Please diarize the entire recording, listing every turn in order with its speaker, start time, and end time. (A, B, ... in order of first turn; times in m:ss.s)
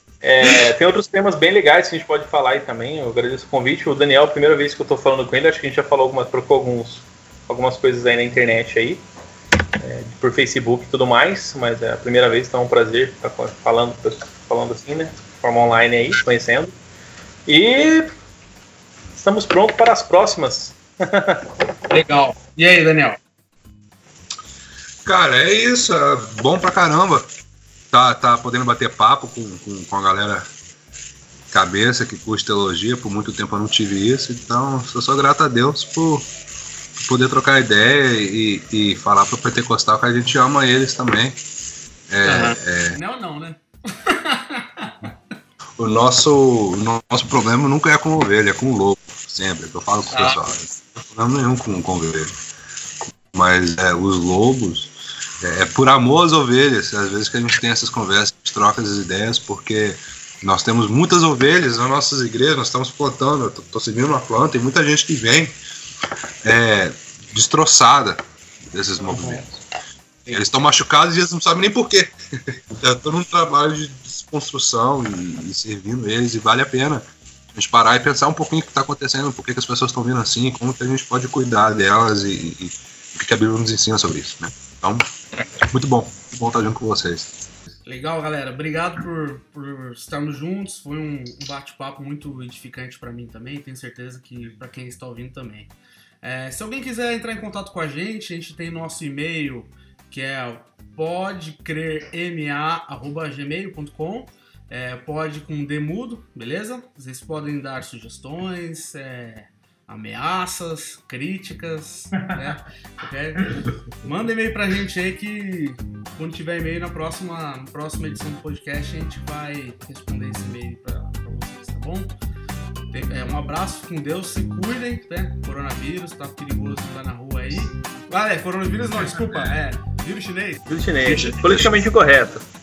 0:00.2-0:09.0 A
0:09.8-0:16.7 A
0:17.5-0:18.1 A
0:19.2-0:21.5 A
0:21.9-0:23.2 B
0:25.0-0:27.3 C
0:27.9-0:30.5 C
0:31.5-0:36.3 C
0:37.0-0:41.4 C
0:42.1-0:43.0 C
0:42.2-0:45.1 B
0:45.8-0:52.3 C
0:50.1-0:50.4 B
0:53.3-1:05.5 C
1:06.4-1:08.2 C
1:08.7-1:09.5 C
1:09.1-1:09.4 A
1:10.3-1:25.1 C
1:25.6-1:27.4 C
1:27.9-2:02.2 B
2:02.9-2:10.6 B
2:09.2-2:09.5 C
2:10.7-2:12.4 A
2:11.1-2:11.8 C